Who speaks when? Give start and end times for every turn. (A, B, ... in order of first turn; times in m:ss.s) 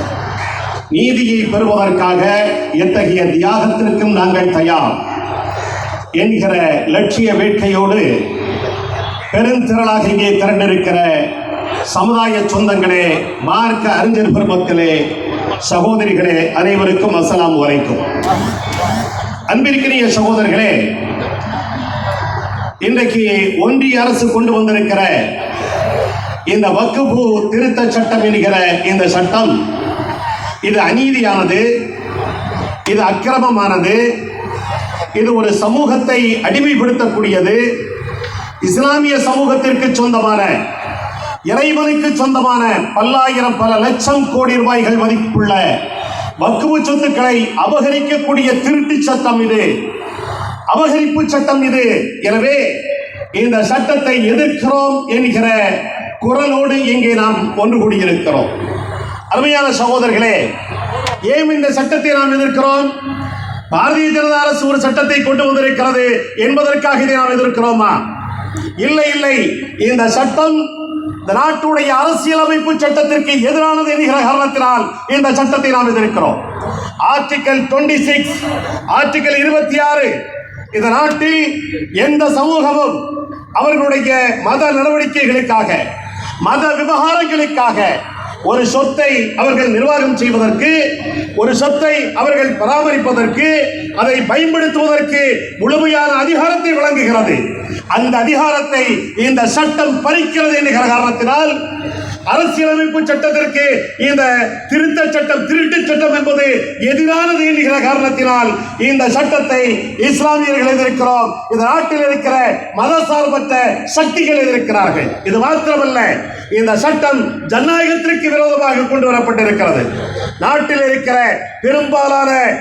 0:00.9-0:04.9 A
0:06.2-0:08.1 A
0:09.3-0:11.3 A
0:11.9-0:15.0 A
0:15.6-0:18.0 A
0:19.5-0:20.8 A
0:22.8-0:25.1 A
0:26.5-0:29.5 A
0:30.6-0:31.6 A
0:32.9-0:34.0 A
0:35.2-0:37.6 A
0:38.6-0:40.5 A
0:41.5-0:45.6 A
0:46.4-0:49.7 A
0:50.7-0:52.6 A
0:53.4-0:58.5 A
0:59.3-1:00.4 A
1:01.3-1:02.9 A
1:03.7-1:08.0 A
1:08.8-1:10.6 A
1:11.2-1:16.4 A
1:17.0-1:18.4 A
1:18.9-1:20.2 A
1:20.7-1:23.0 A
1:23.6-1:25.8 A
1:26.4-1:28.0 A
1:28.5-1:30.8 A
1:31.4-1:37.4 A
1:37.9-1:41.5 A
1:42.3-1:59.9 A
2:00.4-2:02.4 A